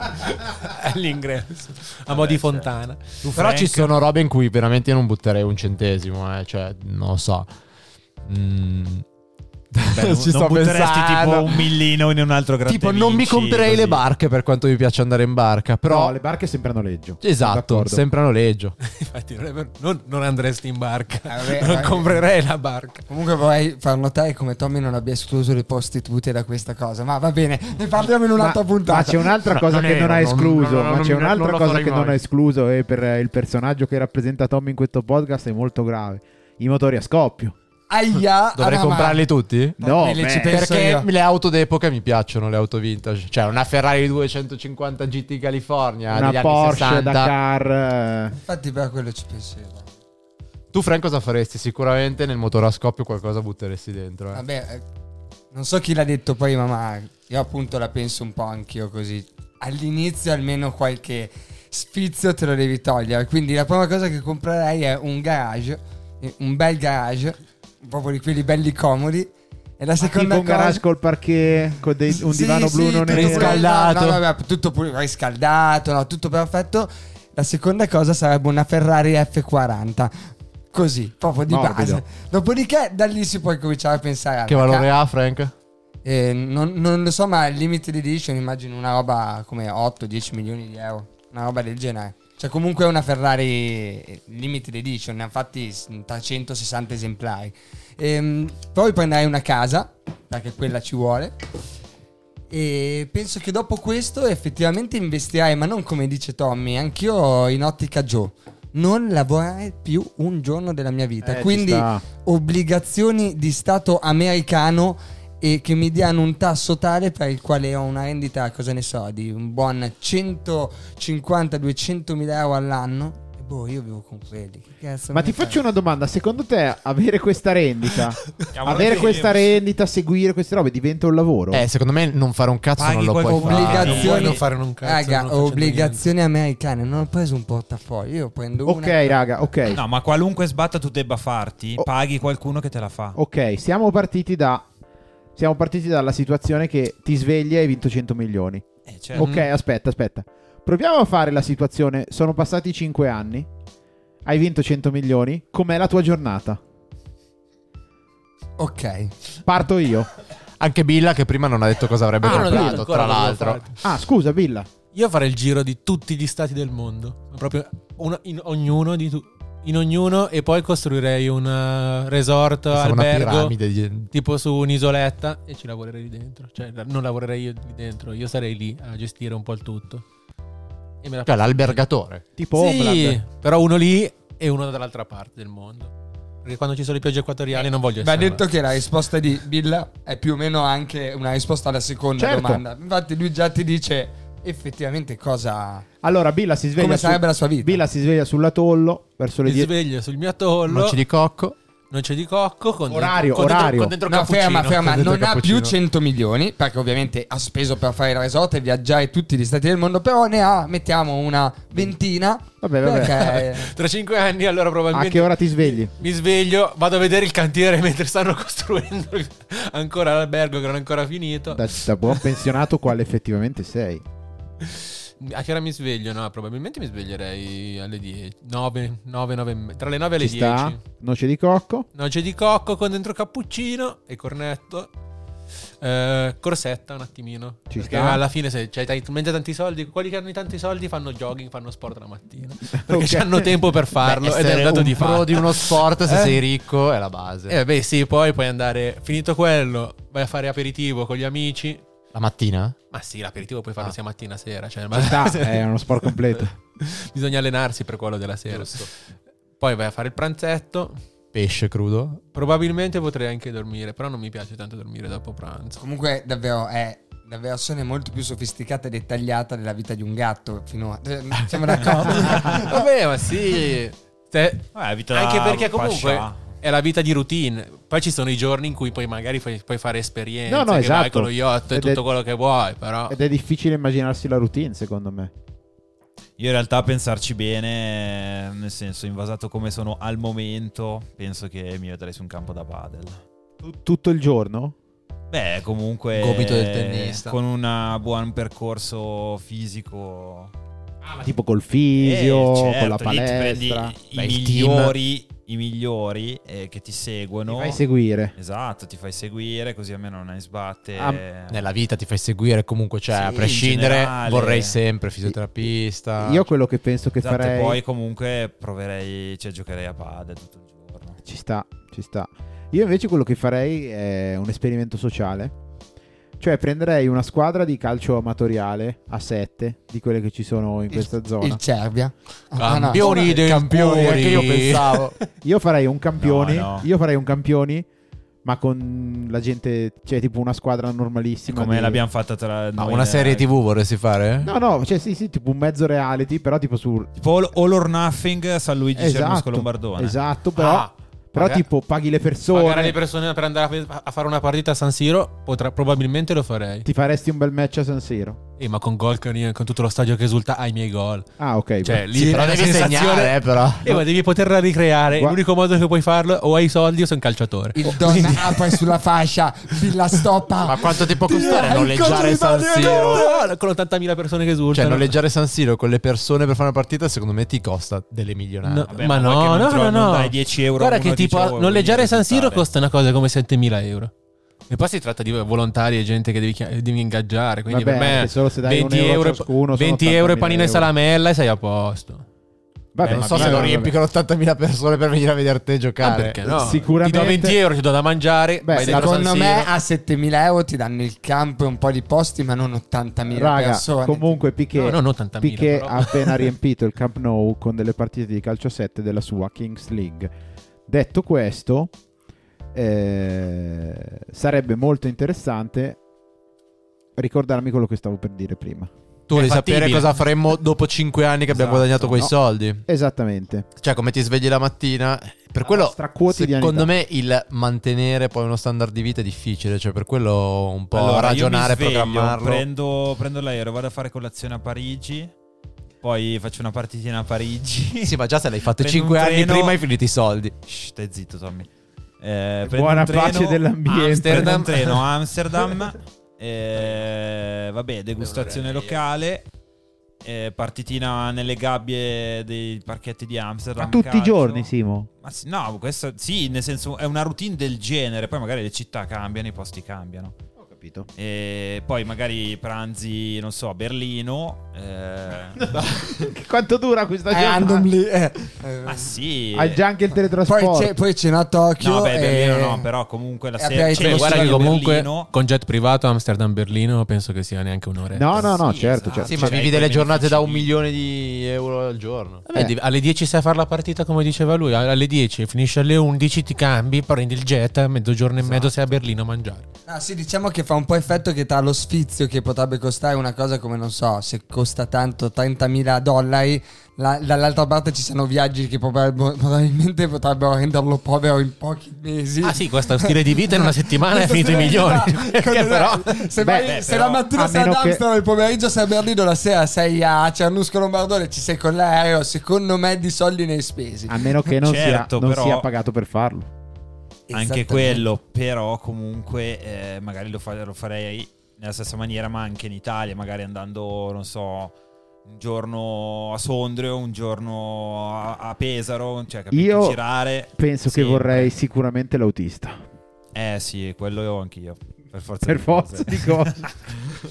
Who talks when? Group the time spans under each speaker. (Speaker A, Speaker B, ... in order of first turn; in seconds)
Speaker A: 0.2-3.2, 18.8-23.1, 133.7-136.0, 149.2-149.5, 162.2-163.8, 164.9-173.6, 174.1-180.0, 181.0-181.8, 182.5-185.9, 186.4-188.4, 199.4-201.0, 201.9-205.7, 213.0-222.2, 224.6-230.8, 231.9-234.9, 235.8-246.4, 247.5-251.8, 252.9-258.9, 259.6-261.0, 262.3-265.8, 272.0-283.2, 332.6-335.3, 350.6-351.6, 352.5-356.9, 358.6-361.3, 361.8-368.9, 371.0-375.2, 378.6-384.1, 384.7-392.2, 396.0-399.7, 404.8-406.5, 419.3-420.2, 421.5-422.0, 443.9-445.0, 448.2-448.8, 473.9-478.6, 479.3-479.6, 482.5-489.6, 502.4-506.3
Speaker B: 2.1-2.7, 3.2-3.9, 9.9-14.0, 128.5-129.4, 132.8-134.4, 139.7-143.2, 148.9-149.4, 274.8-276.4, 286.4-293.2, 295.3-300.5, 302.0-307.8, 308.4-311.6, 313.1-314.8, 317.2-321.2, 336.2-336.9, 341.5-343.5, 347.2-350.2, 378.9-382.7, 393.0-393.9, 430.9-435.3, 436.0-439.8, 440.7-441.7, 442.2-449.5, 450.2-454.7, 455.2-460.4, 461.1-465.6, 468.8-469.8, 471.8-475.3, 478.4-480.7, 506.6-507.3, 514.5-515.7, 517.3-524.7, 525.3-531.5, 533.3-536.4
Speaker C: 3.3-7.5, 8.2-9.1, 9.7-11.6, 12.7-16.2, 17.2-18.8, 29.4-32.2, 38.5-39.8, 40.5-47.3, 50.7-54.4, 73.1-74.2, 84.5-85.5, 131.5-134.1, 160.6-163.6, 172.7-174.1, 181.3-182.2, 200.7-201.6, 244.0-247.6, 252.1-252.8, 258.5-258.9, 261.3-262.2, 296.1-297.4, 304.1-304.9, 311.5-316.5, 332.9-335.2, 342.8-344.5, 362.1-364.0, 370.6-373.3, 374.7-378.9, 393.0-396.4, 419.3-422.8, 423.8-432.6, 438.0-440.5, 479.2-482.5
Speaker D: 15.9-18.0, 28.4-37.5, 39.8-40.6, 46.1-48.4, 70.0-73.7, 81.5-82.0, 111.2-112.0, 125.1-131.6, 138.7-139.8, 143.2-144.7, 145.4-148.6, 149.2-153.5, 154.2-156.6, 159.5-160.1, 162.2-162.8, 163.8-164.7, 182.4-183.2, 192.2-192.6, 196.0-199.7, 202.9-204.0, 212.6-213.2, 214.9-215.9, 221.5-224.0, 230.2-231.9, 237.7-238.2, 242.9-243.5, 254.9-256.5, 280.5-282.0, 283.1-285.3, 293.6-294.8, 301.1-304.0, 307.5-308.4, 311.0-311.2, 316.2-317.8, 321.2-325.5, 326.4-331.6, 334.0-334.5, 335.4-337.9, 338.4-342.0, 344.4-347.1, 349.0-353.0, 356.9-358.4, 361.4-362.1, 365.1-365.4, 387.7-390.9, 392.9-393.9, 396.5-397.6, 398.6-399.1, 403.3-410.3, 410.9-411.9, 412.7-416.0, 417.2-418.9, 422.0-422.3, 422.9-423.7, 425.6-426.9, 442.6-444.8, 453.8-455.1, 460.6-461.1, 465.6-467.9, 469.5-470.9, 478.1-479.6, 506.4-506.8, 507.3-508.0, 514.1-516.5, 529.5-532.8, 535.5-536.6
Speaker E: 21.3-22.2, 23.1-29.3, 37.9-39.3, 39.8-41.1, 48.4-49.9, 54.3-54.8, 55.5-70.8, 72.1-80.1, 80.7-84.9, 86.0-101.5, 102.5-125.6, 133.3-139.1, 158.6-159.1, 187.5-195.9, 196.8-197.8, 204.1-213.7, 265.8-272.8, 330.9-333.4, 367.8-373.4, 398.8-404.3, 467.3-469.1, 470.4-472.9, 473.6-474.7, 489.9-514.3, 517.3-518.0